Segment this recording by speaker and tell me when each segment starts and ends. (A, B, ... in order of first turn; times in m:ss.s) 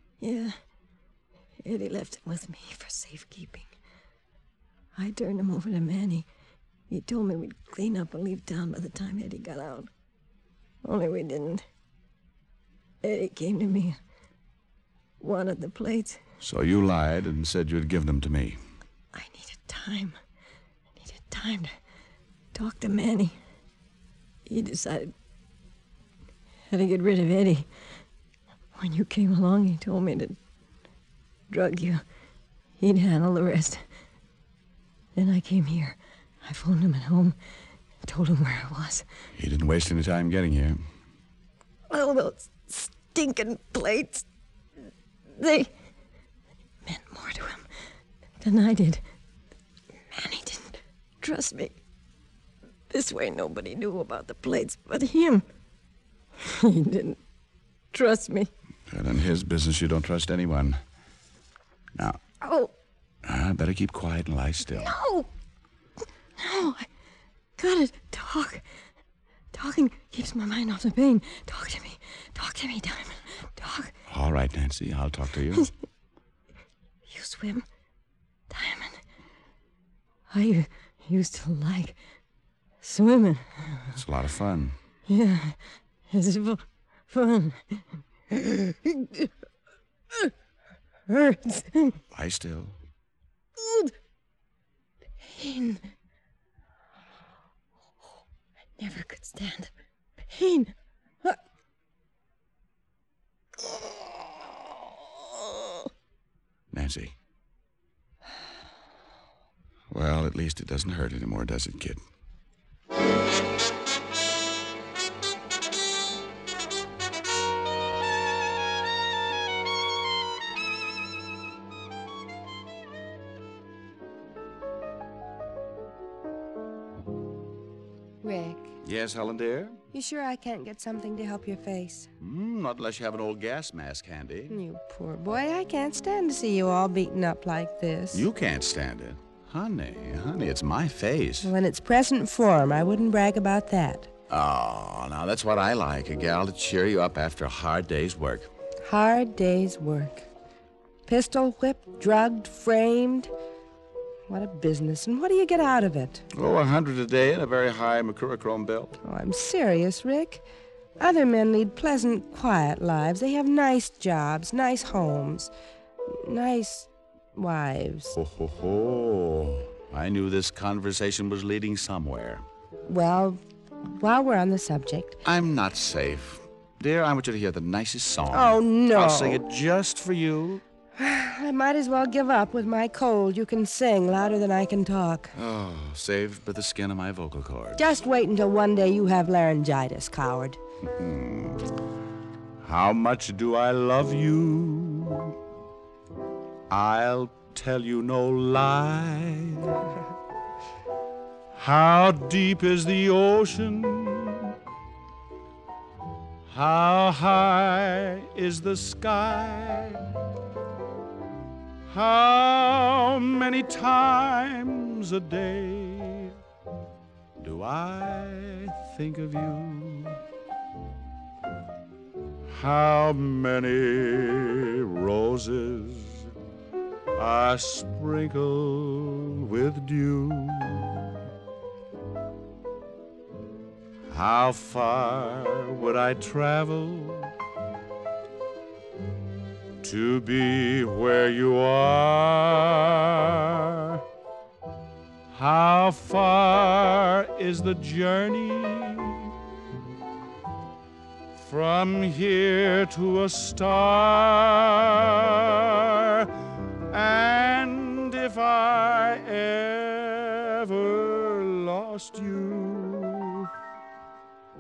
0:00.2-0:00.5 A
0:01.6-0:03.7 A
0:05.0-0:06.2 A
0:06.9-0:09.9 A
0:10.8-0:11.6 A
0:13.0-0:14.0 A
0:15.2-0:16.2 A
0:16.4-0:18.6 B
0:19.1-0:20.2 A
0:21.0-0:21.7 A
0:22.6-0:23.3 A
0:24.5-0:25.1 A
0:26.7-0:27.7 A
0:28.8-0:30.4 A
0:31.5-0:32.0 A
0:32.8-0:33.8 A
0:35.2-0:37.4 A
0:38.1-0:39.0 A
0:39.4-0:40.8 B
0:41.9-0:44.2 A
0:45.4-0:45.7 A
0:46.9-0:47.6 A
0:48.4-0:49.0 A
0:50.1-0:51.7 A
0:52.9-0:55.4 A
0:56.4-0:57.2 A
0:57.9-0:58.5 A
0:58.9-1:00.8 B
1:02.4-1:02.7 A
1:03.2-1:05.0 B
1:04.8-1:05.3 A
1:06.4-1:06.9 A
1:07.6-1:08.6 A
1:09.5-1:13.9 A
1:14.1-1:15.7 B
1:17.1-1:17.6 A
1:18.5-1:19.0 A
1:20.3-1:22.0 A
1:22.8-1:23.9 A
1:23.9-1:24.8 B
1:25.1-1:25.6 A
1:26.1-1:29.3 A
1:31.1-1:32.0 A
1:32.1-1:32.8 B
1:33.6-1:33.9 A
1:35.3-1:35.8 A
1:38.8-1:39.7 A
1:40.3-1:40.7 A
1:46.7-1:47.2 B
1:49.9-1:52.0 B
2:08.2-2:08.7 C
2:08.8-2:09.8 B
2:09.9-2:12.1 C
2:12.2-2:14.6 B
2:14.5-2:18.3 C
2:18.1-2:21.5 B
2:21.4-2:24.1 C
2:24.3-2:28.5 B
2:28.9-2:30.2 C
2:31.1-2:33.3 C
2:34.3-2:36.2 C
2:36.3-2:39.0 B
2:39.0-2:40.4 C
2:41.0-2:45.5 C
2:46.2-2:48.2 C
2:48.2-2:52.4 B
2:52.9-2:53.4 C
2:54.0-2:55.2 C
2:55.2-3:00.6 B
2:58.3-2:59.4 C
3:01.0-3:05.3 C
3:05.4-3:07.8 B
3:07.8-3:10.6 C
3:10.9-3:11.7 B
3:12.6-3:15.4 B
3:16.7-3:19.8 B
3:21.6-3:24.5 B
3:26.5-3:30.0 B
3:31.9-3:36.4 B
3:37.4-3:40.2 B
3:42.5-3:46.3 B
3:47.2-3:51.0 B
3:54.1-3:57.3 B
3:59.8-4:04.0 B
4:05.3-4:09.3 B
4:11.4-4:16.3 B
4:16.9-4:23.5 B